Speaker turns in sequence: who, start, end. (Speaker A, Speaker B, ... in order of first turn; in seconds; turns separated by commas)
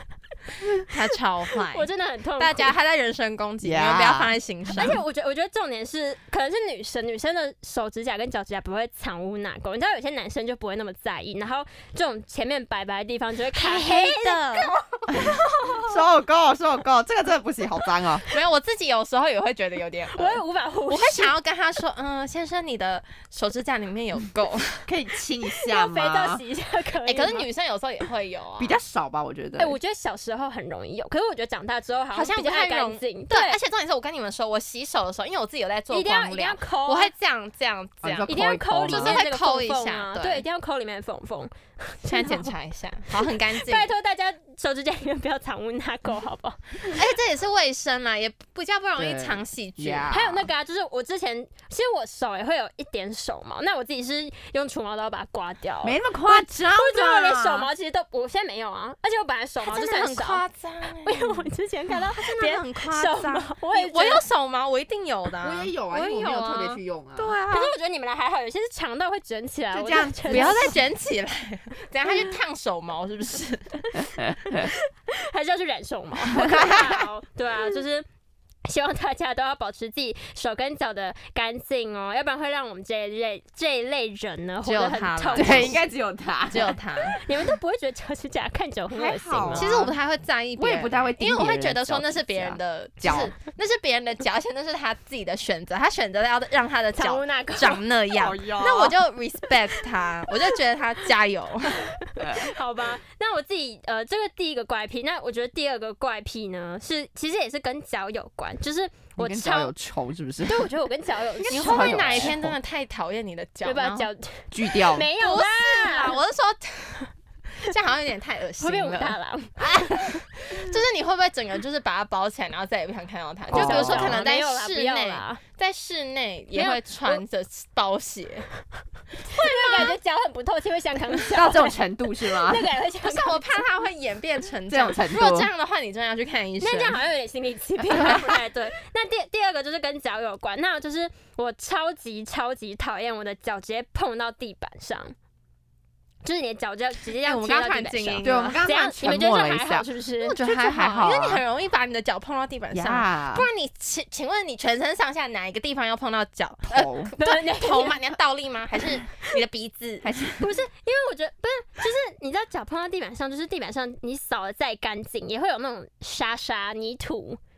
Speaker A: 0.9-1.9, Speaker B: 1.7-2.7, Speaker A: 2.4-5.0, Speaker C: 3.6-4.9, Speaker B: 4.7-14.8, Speaker A: 13.5-15.8, Speaker C: 15.9-18.2, Speaker A: 18.3-24.9, Speaker B: 20.1-21.3, Speaker C: 24.9-26.4, Speaker B: 25.7-27.5, Speaker A: 27.1-28.8, Speaker C: 28.6-29.8, Speaker B: 29.6-33.6, Speaker A: 32.1-38.3, Speaker B: 35.9-37.1, Speaker C: 38.0-39.2, Speaker B: 38.3-42.5, Speaker A: 38.9-40.4, Speaker A: 42.0-43.9, Speaker B: 43.5-47.0, Speaker A: 46.9-50.1, Speaker C: 49.0-50.5, Speaker B: 50.1-60.4, Speaker C: 55.8-57.7, Speaker A: 59.6-67.7, Speaker B: 61.0-64.2, Speaker C: 65.4-67.3, Speaker B: 67.5-70.8, Speaker C: 69.8-70.8, Speaker A: 70.2-73.8, Speaker C: 74.2-74.7, Speaker B: 74.5-78.1, Speaker C: 76.3-77.1, Speaker B: 78.7-85.8, Speaker A: 84.6-85.8, Speaker C: 85.4-86.8, Speaker A: 86.5-87.2, Speaker B: 87.2-89.7, Speaker C: 88.9-90.0, Speaker A: 89.5-101.9, Speaker C: 90.6-93.3, Speaker B: 97.0-97.8, Speaker C: 98.2-99.0, Speaker C: 102.2-102.5, Speaker B: 102.2-109.7, Speaker C: 109.2-110.7, Speaker B: 110.5-112.3, Speaker C: 111.4-112.5, Speaker A: 111.5-114.1, Speaker B: 113.6-116.2, Speaker C: 114.5-115.1, Speaker A: 115.2-117.1, Speaker A: 117.6-128.5, Speaker B: 118.6-120.0, Speaker C: 123.5-124.2, Speaker B: 123.5-125.4, Speaker B: 126.5-127.2, Speaker B: 129.3-133.5, Speaker A: 129.4-129.8, Speaker C: 131.3-132.7, Speaker A: 133.0-137.0, Speaker C: 134.7-135.5, Speaker B: 136.6-145.1, Speaker B: 146.2-150.4, Speaker A: 147.2-148.6, Speaker C: 148.2-149.9, Speaker A: 150.2-160.1, Speaker C: 150.4-151.4, Speaker C: 152.7-153.5, Speaker C: 156.7-157.1, Speaker B: 157.2-158.0, Speaker C: 160.0-160.5, Speaker B: 160.4-167.4